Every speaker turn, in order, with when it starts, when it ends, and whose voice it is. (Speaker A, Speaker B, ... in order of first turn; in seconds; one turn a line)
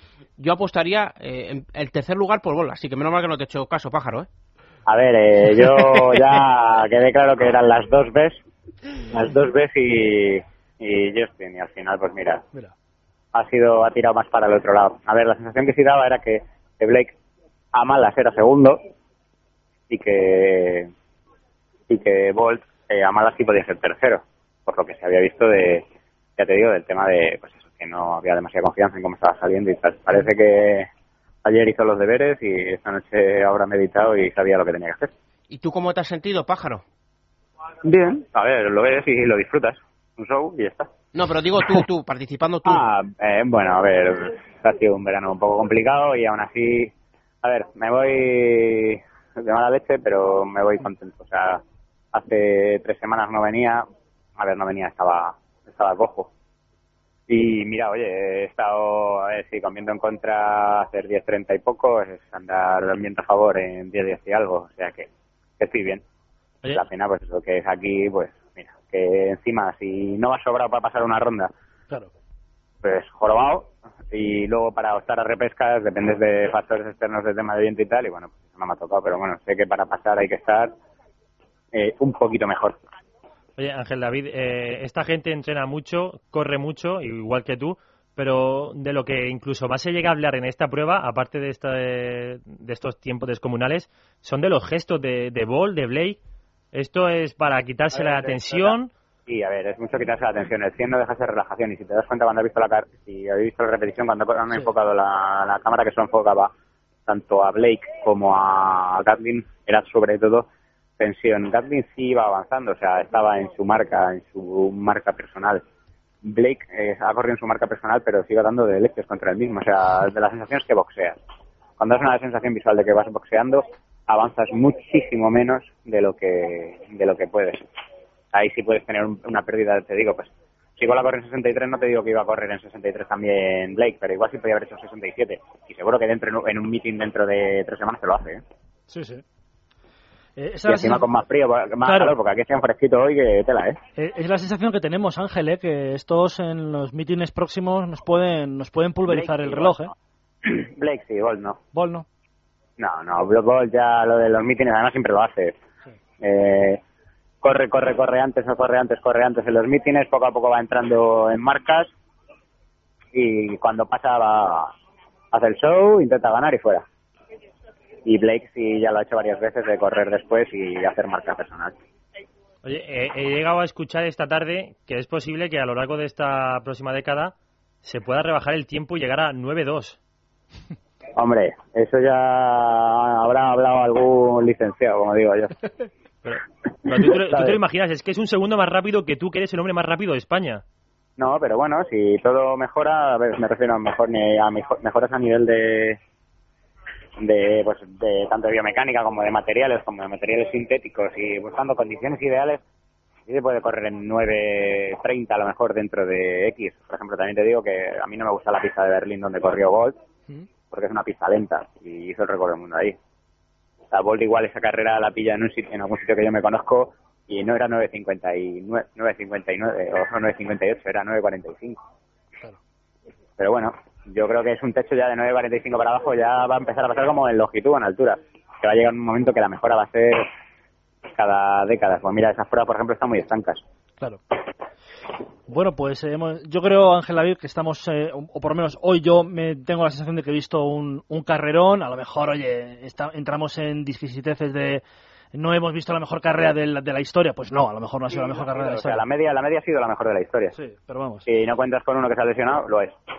Speaker A: 0.4-4.3
Speaker B: 4.8-8.4
Speaker B: 9.1-12.4
Speaker B: 13.3-17.1
Speaker B: 17.7-18.8
Speaker B: 19.9-20.9
Speaker B: 21.9-25.8
Speaker B: 26.4-30.9
Speaker B: 31.4-35.1
Speaker A: 35.5-36.8
Speaker B: 37.8-40.9
Speaker A: 41.1-42.8
Speaker B: 42.6-46.9
Speaker B: 47.4-51.6
Speaker B: 52.1-53.8
Speaker B: 54.4-56.3
Speaker B: 57.3-66.0
Speaker B: 66.7-71.5
Speaker B: 72.8-80.7
Speaker B: 81.7-82.8
Speaker C: 83.6-96.2
Speaker C: 96.7-98.9
Speaker B: 97.9-98.7
Speaker B: 99.3-106.5
Speaker B: 107.1-110.5
Speaker B: 111.0-115.6
Speaker B: 116.2-121.2
Speaker B: 121.8-127.6
Speaker B: 128.3-138.4
Speaker D: 138.9-139.2
Speaker D: 140.4-141.1
Speaker B: 140.7-143.8
Speaker D: 141.8-142.2
Speaker D: 144.0-149.9
Speaker B: 149.1-151.6
Speaker D: 151.7-152.1
Speaker B: 152.8-155.5
Speaker B: 156.2-156.8
Speaker B: 157.4-161.9
Speaker B: 163.1-164.7
Speaker B: 165.3-166.8
Speaker B: 168.0-171.7
Speaker C: 172.6-180.0
Speaker B: 181.2-185.6
Speaker C: 186.2-190.6
Speaker B: 187.1-187.6
Speaker B: 191.2-196.0
Speaker B: 197.2-202.6
Speaker B: 203.3-209.9
Speaker B: 210.7-213.0
Speaker B: 213.9-221.8
Speaker B: 223.4-230.2
Speaker B: 231.1-233.6
Speaker D: 235.5-244.8
Speaker D: 245.3-249.0
Speaker B: 248.1-250.5
Speaker D: 250.5-251.3
Speaker B: 251.2-252.9